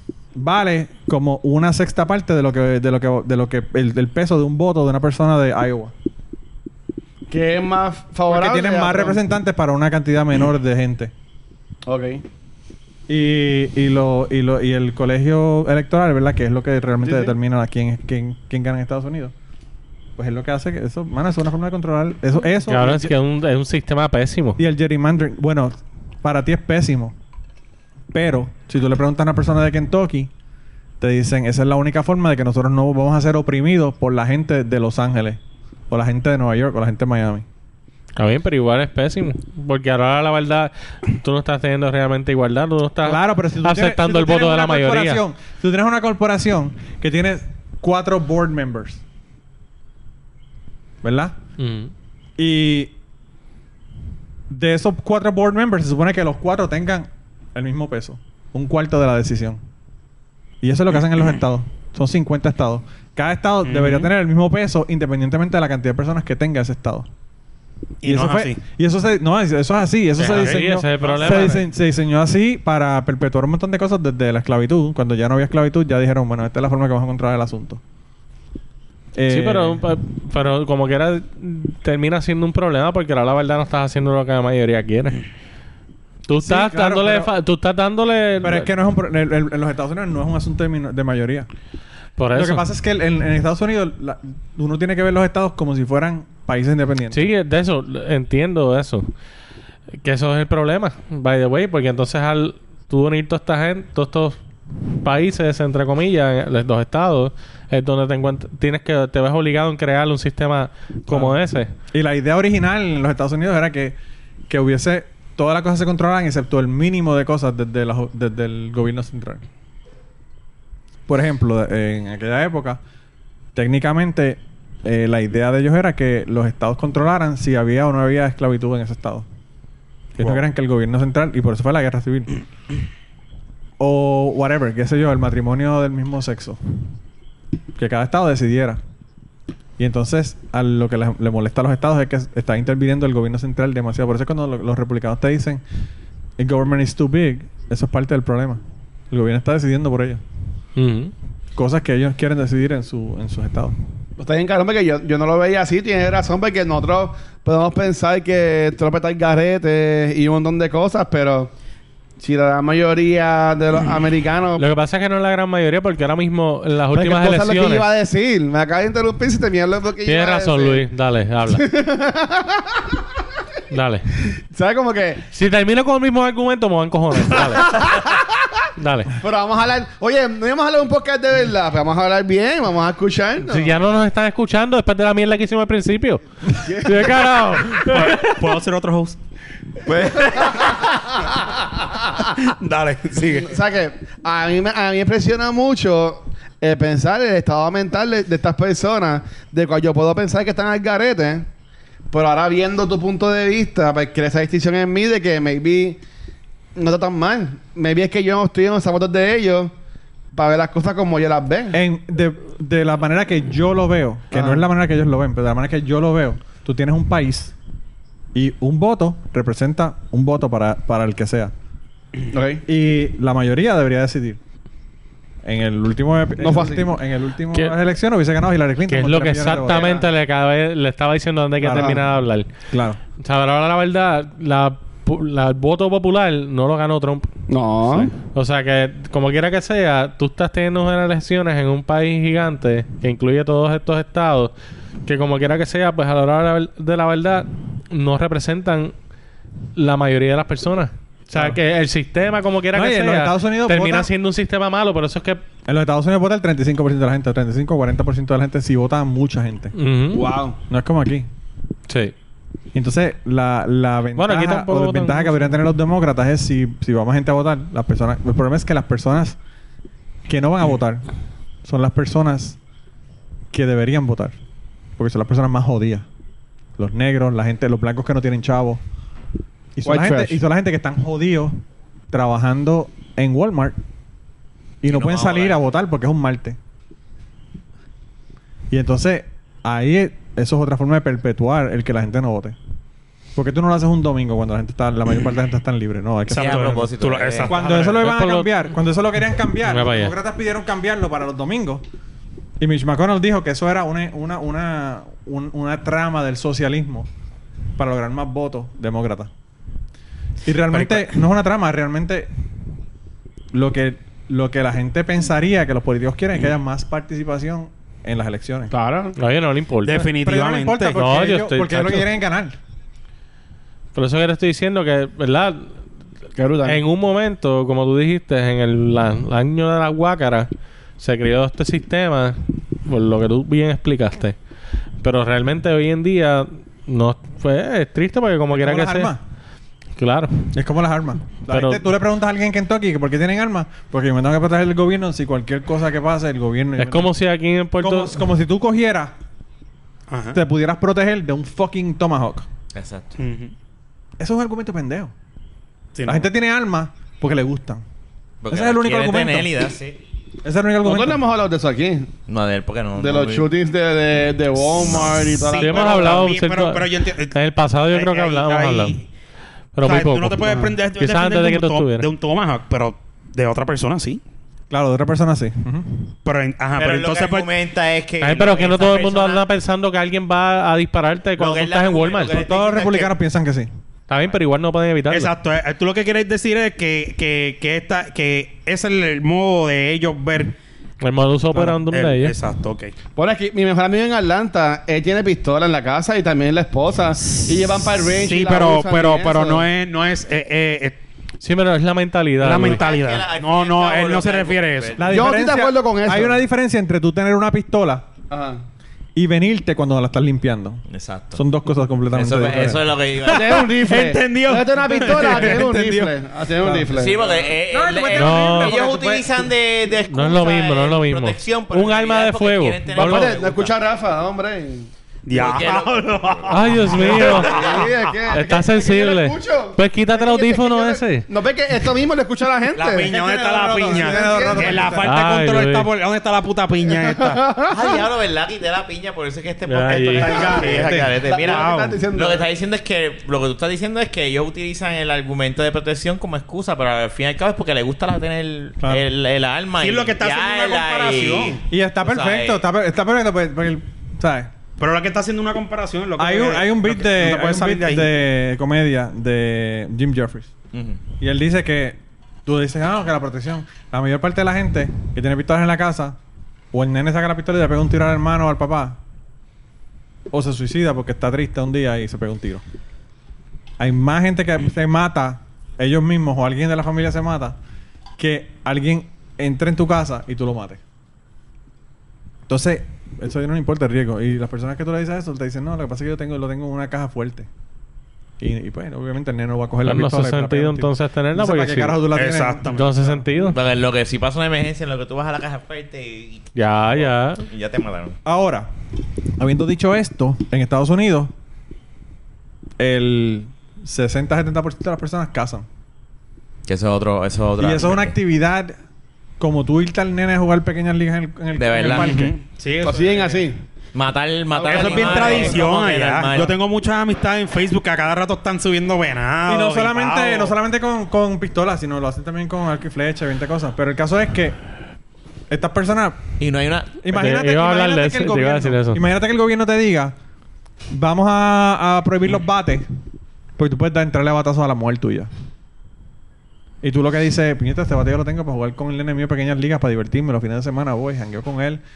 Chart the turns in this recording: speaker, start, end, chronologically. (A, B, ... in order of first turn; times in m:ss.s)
0:00.3-0:05.9 A
0:07.3-0:09.2 B
0:08.3-0:11.1 A
0:11.8-0:12.2 B
0:13.1-0:19.3 A
0:17.0-0:17.4 B
0:20.2-0:23.1 A
0:22.7-0:24.6 C
0:24.6-0:27.1 A
0:28.1-0:30.3 A
0:31.0-0:37.4 A
0:38.2-0:45.2 C
0:43.0-0:49.0 A
0:51.0-0:51.4 A
0:51.6-0:51.9 C
0:52.4-0:52.9 A
0:54.5-0:59.6 A
1:00.6-1:07.1 A
1:03.6-1:04.1 D
1:08.0-1:08.6 D
1:08.0-1:17.8 A
1:10.2-1:11.6 C
1:10.2-1:11.6 D
1:19.1-1:19.8 A
1:19.3-1:25.2 C
1:26.3-1:28.7 C
1:26.4-1:27.3 A
1:28.4-1:31.5 A
1:32.2-1:32.6 C
1:32.3-1:37.3 A
1:37.1-1:39.1 C
1:40.0-1:44.4 C
1:45.0-1:51.7 C
1:51.1-1:51.4 A
1:51.9-1:54.0 A
1:54.5-1:59.4 A
2:01.1-2:02.8 A
2:03.5-2:09.2 A
2:10.2-2:12.4 A
2:13.8-2:16.9 A
2:17.8-2:18.8 A
2:19.8-2:25.6 A
2:26.4-2:30.2 A
2:30.8-2:31.1 C
2:31.5-2:33.7 A
2:34.2-2:41.5 B
2:42.2-2:44.6 B
2:44.6-2:47.8 C
2:46.9-2:50.8 B
2:50.0-2:51.6 C
2:51.5-2:53.0 B
2:53.7-2:54.1 C
2:54.5-2:55.2 B
2:55.3-2:57.7 C
2:57.6-2:58.5 B
2:58.8-2:59.1 C
2:59.2-3:03.8 B
3:03.4-3:08.4 C
3:06.6-3:07.2 B
3:07.7-3:09.2 D
3:09.8-3:12.3 B
3:12.4-3:13.5 D
3:13.4-3:21.5 B
3:22.1-3:26.0 B
3:26.8-3:29.7 B
3:30.3-3:31.8 B
3:31.7-3:37.5 A
3:34.3-3:34.6 B
3:38.3-3:41.5 A
3:42.3-3:42.6 B
3:42.7-3:44.4 A
3:45.4-3:49.9 A
3:46.4-3:46.9 B
3:48.9-3:52.5 C
3:49.6-3:50.0 B
3:51.6-3:51.9 A
3:51.6-3:52.0 B
3:52.7-3:53.0 A
3:53.2-3:57.3 C
3:57.5-3:58.1 B
3:57.9-4:04.5 C
4:05.0-4:08.9 C
4:09.7-4:15.4 C
4:11.3-4:11.6 A
4:12.7-4:14.1 A
4:15.6-4:19.7 A
4:19.7-4:20.3 C
4:20.1-4:20.6 B
4:20.7-4:21.3 A
4:21.9-4:22.1 C
4:22.7-4:29.4 A
4:24.2-4:25.6 C
4:30.3-4:31.0 A
4:31.6-4:32.6 A
4:33.5-4:34.4 A
4:35.0-4:36.0 A
4:36.8-4:38.8 A
4:39.7-4:43.8 A
4:39.8-4:40.4 B
4:44.8-4:46.6 A
4:44.9-4:45.6 E
4:48.7-4:52.6 A
4:53.3-5:01.8 A
4:56.3-4:58.0 D
4:56.3-4:57.6 E
4:58.0-4:58.7 C
4:59.7-5:00.1 C
5:02.6-5:07.1 A
5:07.8-5:09.3 A
5:10.4-5:12.3 A
5:10.7-5:11.1 D
5:13.5-5:18.7 A
5:18.7-5:19.2 B
5:19.1-5:20.1 C
5:19.8-5:21.0 D
5:20.0-5:22.6 A
5:20.9-5:22.1 C
5:23.9-5:25.7 C
5:26.4-5:26.8 B
5:26.6-5:34.4 C
5:35.0-5:39.1 C
5:38.5-5:39.2 A
5:40.0-5:40.5 C
5:40.5-5:47.1 A
5:41.5-5:41.8 C
5:46.8-5:48.2 C
5:47.8-5:49.2 A
5:50.1-5:50.4 D
5:50.3-5:52.5 A
5:52.7-5:53.1 E
5:53.2-5:53.5 D
5:54.2-5:55.1 A
5:55.9-5:56.3 D
5:56.0-5:57.8 A
5:58.4-6:00.0 E
5:58.5-5:59.5 A
6:00.4-6:01.2 A
6:00.8-6:02.1 B
6:02.3-6:03.5 E
6:03.0-6:06.2 B
6:04.7-6:05.3 E
6:05.4-6:07.4 D
6:05.6-6:09.0 C
6:07.9-6:09.0 D
6:09.7-6:12.1 C
6:09.8-6:14.2 D
6:14.7-6:16.1 A
6:16.2-6:17.5 D
6:16.8-6:19.4 E
6:18.2-6:22.4 C
6:21.4-6:23.1 E
6:22.3-6:23.7 A
6:24.1-6:25.3 C
6:25.1-6:30.6 D
6:31.0-6:32.4 C
6:31.6-6:32.9 D
6:33.2-6:39.6 B
6:38.1-6:41.0 D
6:41.4-6:42.8 C
6:42.4-6:45.0 D
6:42.6-6:45.2 E
6:45.0-6:48.1 A
6:45.1-6:46.4 B
6:48.3-6:48.6 B
6:49.1-6:52.9 A
6:50.9-6:51.4 E
6:52.1-6:53.6 E
6:53.2-6:57.2 B
6:53.3-6:55.6 D
6:54.9-6:59.5 A
6:56.9-7:03.7 E
6:58.1-6:58.8 C
7:00.1-7:03.3 C
7:02.9-7:04.9 B
7:05.2-7:08.0 D
7:05.3-7:07.8 E
7:06.5-7:07.6 C
7:07.0-7:13.1 B
7:08.3-7:11.3 C
7:12.7-7:17.4 D
7:13.0-7:15.2 A
7:13.9-7:15.0 B
7:15.0-7:15.9 C
7:17.0-7:18.0 B
7:17.7-7:32.6 E
7:19.6-7:20.4 C
7:20.2-7:20.9 D
7:20.3-7:22.5 B
7:20.6-7:21.1 A
7:21.4-7:22.0 D
7:28.8-7:29.0 A
7:29.8-7:31.6 D
7:31.7-7:34.5 A
7:34.8-7:38.1 D
7:36.2-7:40.5 A
7:40.7-7:41.0 E
7:41.2-7:46.2 A
7:46.7-7:49.0 A
7:50.3-7:52.6 A
7:53.8-7:57.6 A
7:58.2-8:00.8 A
8:02.5-8:07.5 A
8:08.4-8:12.7 A
8:09.8-8:12.0 C
8:12.1-8:13.2 D
8:12.7-8:13.6 C
8:13.4-8:18.2 E
8:16.6-8:17.4 C
8:18.2-8:18.7 A
8:19.4-8:21.3 A
8:22.8-8:25.7 A
8:26.6-8:28.1 E
8:27.6-8:28.8 A
8:29.4-8:32.3 A
8:31.5-8:32.3 E
8:31.8-8:33.5 D
8:32.8-8:33.6 B
8:33.9-8:36.5 E
8:34.5-8:35.6 B
8:34.6-8:40.6 D
8:39.5-8:44.6 A
8:45.5-8:46.3 A
8:46.4-8:47.0 E
8:47.0-8:50.1 A
8:47.1-8:49.0 C
8:50.9-8:52.9 A
8:53.6-8:55.3 A
8:56.8-9:01.8 A